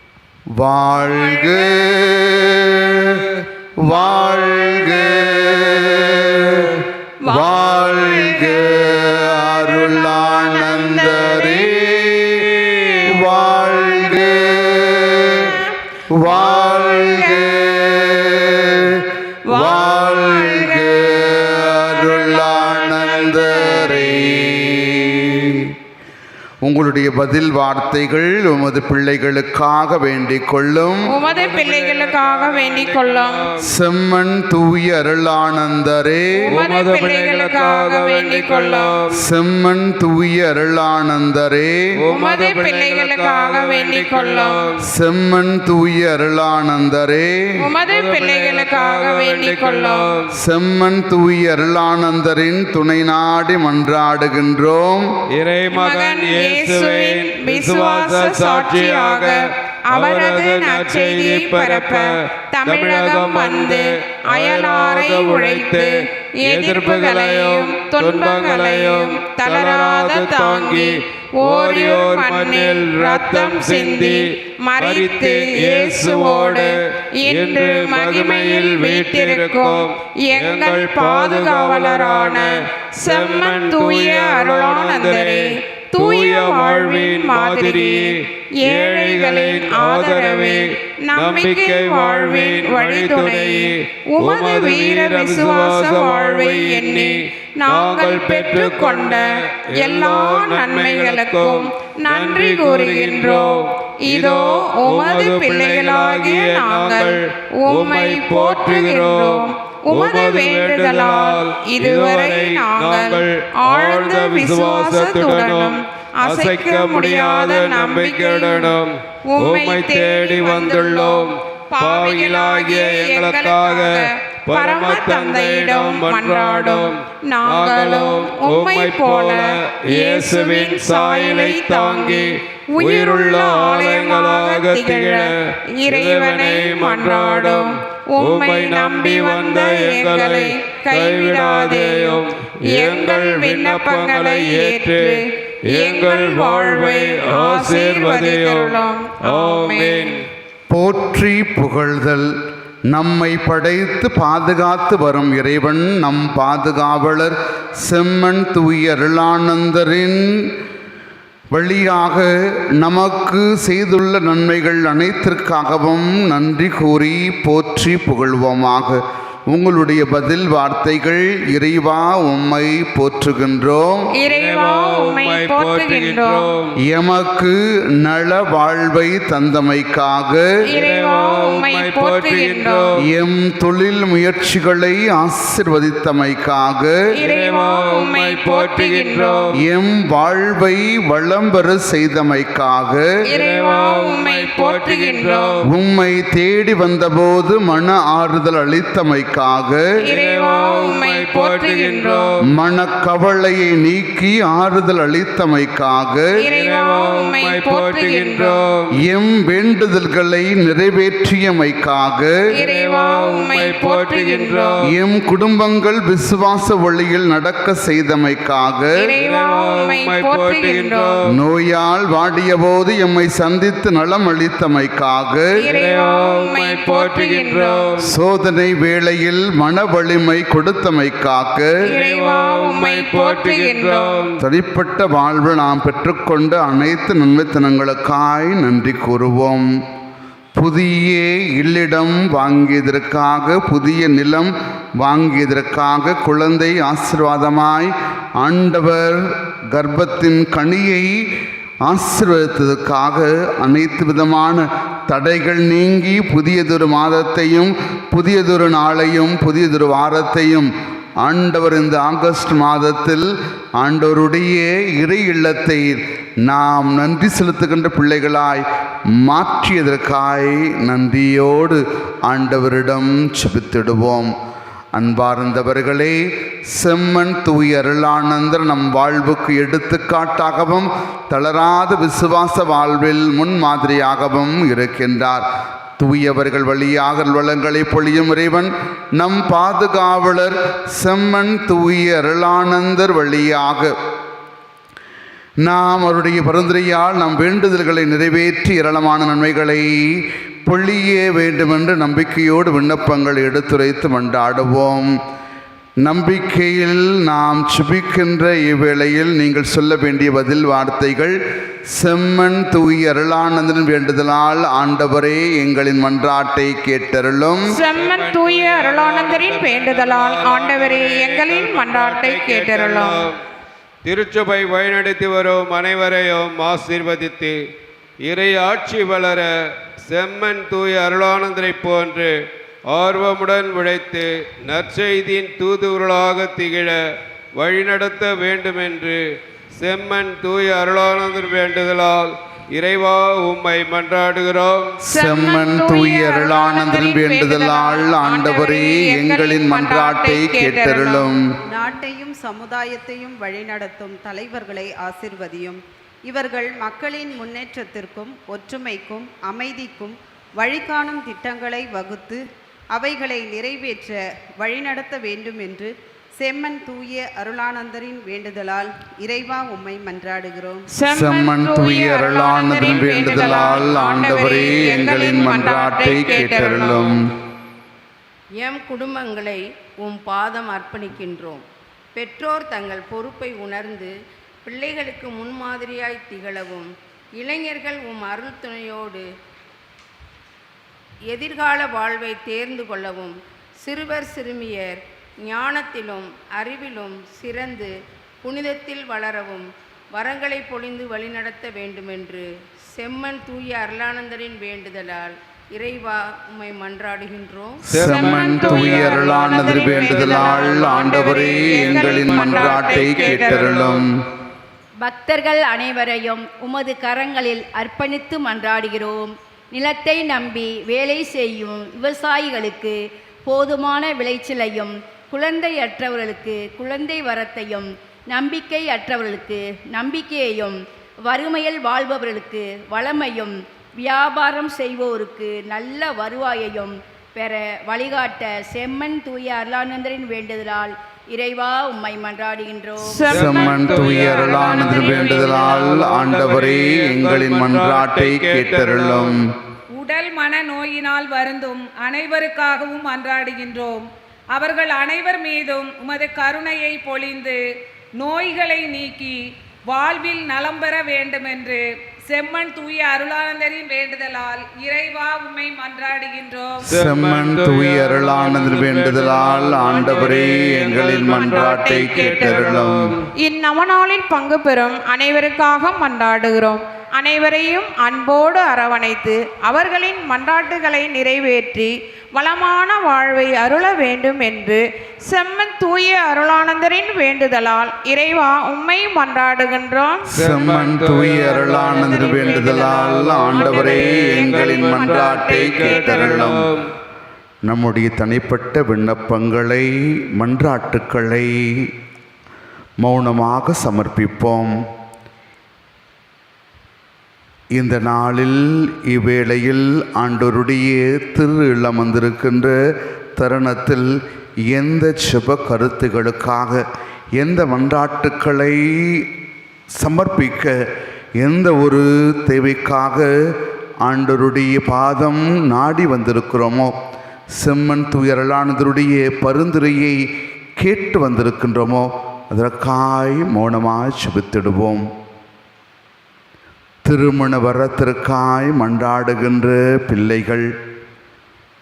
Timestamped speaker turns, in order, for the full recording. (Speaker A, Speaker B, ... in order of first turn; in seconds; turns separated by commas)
Speaker A: 0.6-15.6, Speaker B: 1.0-1.8, Speaker B: 4.2-5.2, Speaker B: 7.2-11.7, Speaker B: 13.6-14.0, Speaker B: 15.4-17.6, Speaker A: 16.1-25.8, Speaker B: 19.5-24.3, Speaker A: 26.6-31.1, Speaker B: 31.1-33.5, Speaker C: 31.2-33.7, Speaker A: 33.6-36.5, Speaker B: 36.4-38.9, Speaker C: 36.5-39.2, Speaker A: 39.1-41.8, Speaker C: 42.0-44.8, Speaker B: 42.1-44.6, Speaker A: 44.8-47.6, Speaker B: 47.6-50.1, Speaker C: 47.9-50.3, Speaker A: 50.3-55.1, Speaker C: 55.4-62.1, Speaker B: 55.7-118.8, Speaker C: 62.6-65.9, Speaker C: 66.5-76.8, Speaker C: 77.3-82.5, Speaker C: 83.0-135.3, Speaker B: 119.3-135.3, Speaker B: 135.8-150.2, Speaker C: 135.9-150.2, Speaker A: 150.7-152.3, Speaker A: 152.9-160.5, Speaker A: 161.5-174.1, Speaker B: 174.2-176.4, Speaker C: 174.3-176.8, Speaker A: 176.8-180.5, Speaker C: 180.7-183.0, Speaker B: 180.7-182.9, Speaker A: 183.0-187.0, Speaker B: 187.1-189.5, Speaker C: 187.2-189.5, Speaker A: 189.6-193.1, Speaker C: 193.3-195.6, Speaker B: 193.3-195.6, Speaker A: 195.7-199.9, Speaker B: 200.0-202.3, Speaker C: 200.1-202.4, Speaker A: 202.5-206.3, Speaker B: 206.4-208.6, Speaker C: 206.4-208.9, Speaker A: 209.0-212.3, Speaker B: 212.6-214.8, Speaker C: 212.6-214.8, Speaker A: 214.9-219.1, Speaker B: 219.0-221.2, Speaker C: 219.2-221.2, Speaker A: 221.3-225.5, Speaker B: 225.6-227.9, Speaker C: 225.7-228.1, Speaker A: 228.0-231.8, Speaker C: 231.9-234.4, Speaker B: 231.9-234.2, Speaker A: 234.4-239.7, Speaker A: 240.6-251.3, Speaker A: 251.9-260.7, Speaker A: 261.2-274.3, Speaker A: 274.9-285.5, Speaker A: 286.0-293.9, Speaker A: 295.6-305.1, Speaker A: 306.0-311.4, Speaker A: 311.9-317.7, Speaker B: 317.7-323.2, Speaker C: 317.9-323.4, Speaker C: 324.1-327.6, Speaker C: 328.3-329.5, Speaker C: 330.0-332.4, Speaker C: 332.9-337.0, Speaker C: 337.6-339.2, Speaker C: 339.7-344.9, Speaker A: 345.1-351.4, Speaker B: 345.1-351.3, Speaker D: 351.7-362.4, Speaker D: 362.9-370.9, Speaker B: 370.9-377.1, Speaker A: 371.1-377.3, Speaker E: 378.6-381.6, Speaker E: 382.2-384.1, Speaker E: 384.6-389.3, Speaker E: 391.3-407.8, Speaker A: 407.9-414.1, Speaker C: 407.9-414.1, Speaker B: 408.0-413.7, Speaker F: 415.0-423.0, Speaker F: 423.5-443.3, Speaker B: 443.0-445.6, Speaker A: 443.3-449.4, Speaker C: 443.3-449.4, Speaker G: 450.0-457.6, Speaker G: 458.2-459.4, Speaker G: 459.9-466.9, Speaker A: 466.9-473.1, Speaker C: 466.9-473.3, Speaker B: 471.4-472.8, Speaker B: 473.4-490.3, Speaker A: 490.3-496.7, Speaker C: 490.4-496.8, Speaker B: 491.6-496.6, Speaker A: 497.7-501.9, Speaker A: 503.0-504.7, Speaker A: 507.8-512.8, Speaker A: 513.4-514.1, Speaker A: 514.7-516.9, Speaker A: 517.4-519.3, Speaker A: 520.0-520.8, Speaker A: 521.4-523.3, Speaker A: 524.0-526.9, Speaker A: 527.5-530.2, Speaker A: 530.8-535.1, Speaker A: 537.1-540.7